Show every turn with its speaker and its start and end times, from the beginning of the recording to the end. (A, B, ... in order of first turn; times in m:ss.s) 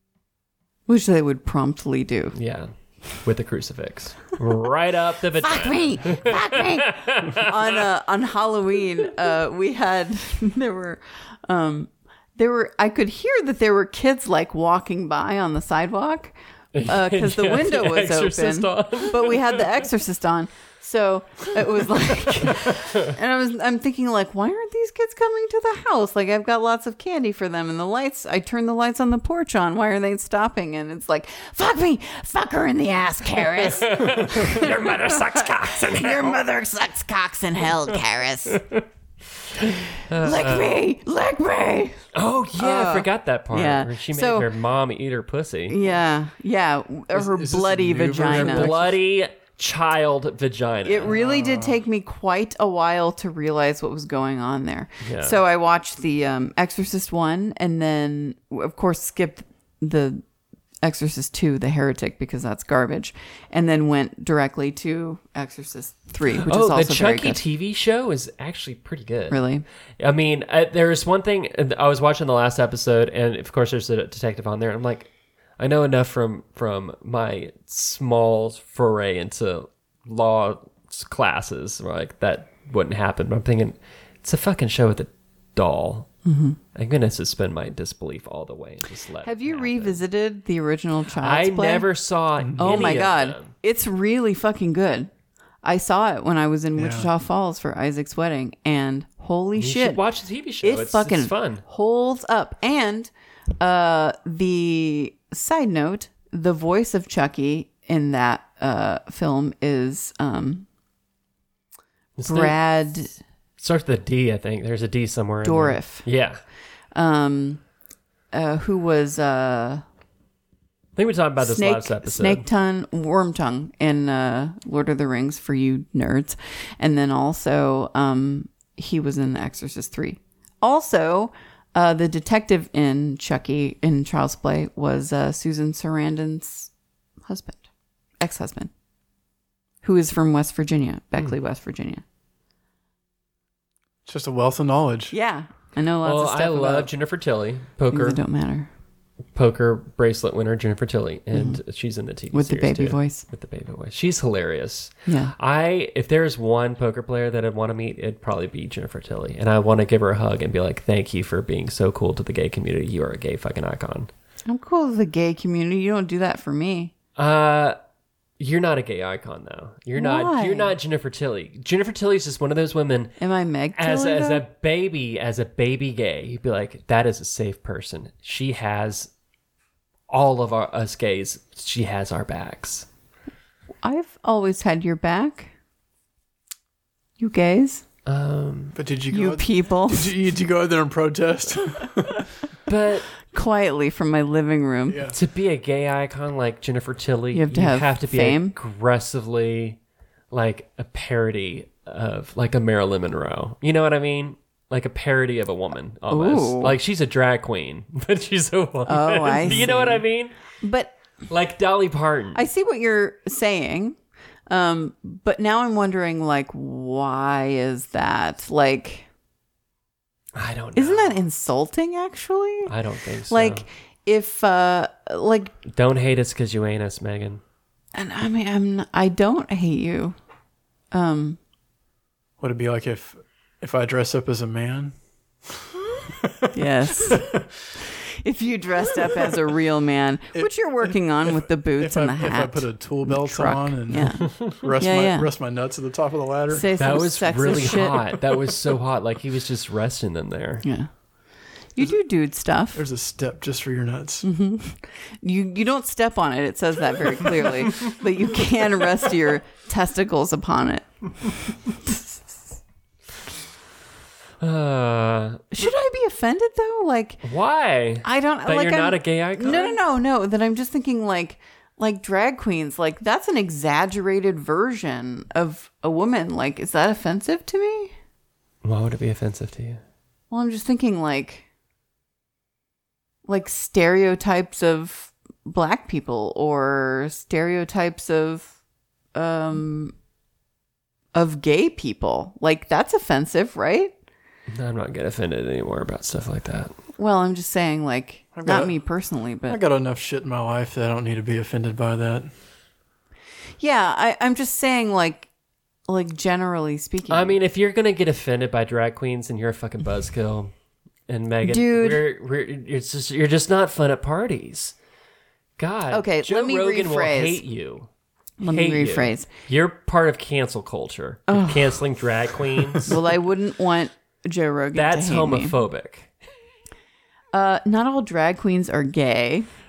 0:00.9-0:02.3 A
0:02.3-0:07.5 B
0:05.4-0:38.6 A
0:16.7-0:19.8 B
0:22.5-0:23.0 B
0:33.4-0:36.4 B
0:38.6-0:38.8 B
0:40.0-0:40.8 B
0:40.1-0:42.0 A
0:42.1-0:45.8 B
0:42.6-0:44.5 A
0:45.7-0:48.8 A
0:47.1-0:48.9 C
0:48.2-0:51.1 B
0:50.8-1:00.2 A
0:51.1-0:51.8 C
0:55.0-0:55.4 B
1:00.8-1:07.4 A
1:06.5-1:09.4 B
1:09.3-1:09.6 A
1:10.0-1:26.1 B
1:26.2-1:26.6 A
1:26.7-1:30.0 B
1:29.2-1:31.9 A
1:31.2-1:33.5 B
1:32.4-1:32.8 C
1:32.6-1:35.1 A
1:35.6-1:40.0 A
1:36.8-1:37.1 C
1:39.6-1:41.6 B
1:40.6-1:50.7 A
1:52.2-1:52.6 B
1:52.3-1:53.2 A
1:53.6-1:56.4 B
1:55.4-1:56.0 A
1:56.9-1:57.6 A
1:58.3-1:59.8 A
2:01.0-2:02.4 B
2:01.4-2:16.7 A
2:17.2-2:17.6 A
2:18.2-2:18.7 A
2:19.8-2:22.0 A
2:24.0-2:25.1 C
2:25.1-2:26.9 A
2:26.0-2:28.2 B
2:27.9-2:28.7 A
2:29.3-2:44.1 B
2:31.3-2:31.6 A
2:32.3-2:33.2 A
2:35.1-2:35.3 A
2:44.5-2:46.9 A
2:47.2-2:47.8 B
2:48.4-2:53.2 B
2:49.9-2:50.8 A
2:53.2-2:54.4 A
2:53.7-2:59.1 B
3:00.1-3:02.9 B
3:03.8-3:05.5 A
3:07.2-3:07.8 A
3:08.0-3:08.8 B
3:08.7-3:12.3 C
3:09.1-3:10.1 A
3:12.7-3:13.1 B
3:13.3-3:15.1 A
3:14.9-3:15.1 C
3:15.1-3:19.8 B
3:17.3-3:18.6 A
3:20.3-3:30.3 B
3:26.1-3:26.8 A
3:28.9-3:30.0 A
3:30.6-3:30.9 A
3:31.3-3:32.4 B
3:32.3-3:34.0 A
3:34.5-3:39.1 A
3:40.3-3:41.2 B
3:40.8-3:42.7 A
3:42.7-3:43.6 B
3:43.3-3:45.5 A
3:45.7-3:47.4 B
3:47.9-3:50.2 A
3:50.9-3:51.4 A
3:52.4-3:54.9 C
3:55.5-3:56.5 C
3:56.5-3:57.3 A
3:57.0-3:57.3 C
3:58.2-4:05.3 A
4:00.3-4:06.7 C
4:06.5-4:08.0 A
4:06.8-4:10.6 B
4:10.6-4:10.9 A
4:11.7-4:12.8 A
4:12.7-4:14.2 C
4:14.2-4:21.3 A
4:24.4-4:25.4 B
4:25.5-4:27.2 A
4:27.2-4:29.8 B
4:28.0-4:37.9 A
4:38.6-4:39.8 B
4:40.3-4:41.4 A
4:43.3-4:48.5 A
4:49.1-4:49.9 A
4:51.1-4:53.9 A
4:54.5-4:56.7 B
4:57.0-4:59.6 A
4:58.3-4:58.8 C
4:59.4-5:02.3 C
5:03.6-5:05.3 A
5:05.9-5:07.4 A
5:07.1-5:10.5 B
5:11.1-5:14.7 B
5:11.4-5:12.0 A
5:15.6-5:17.9 B
5:15.9-5:17.4 A
5:18.4-5:19.3 A
5:18.4-5:23.0 B
5:21.3-5:21.8 A
5:22.8-5:25.5 A
5:24.7-5:26.1 B
5:27.3-5:29.5 A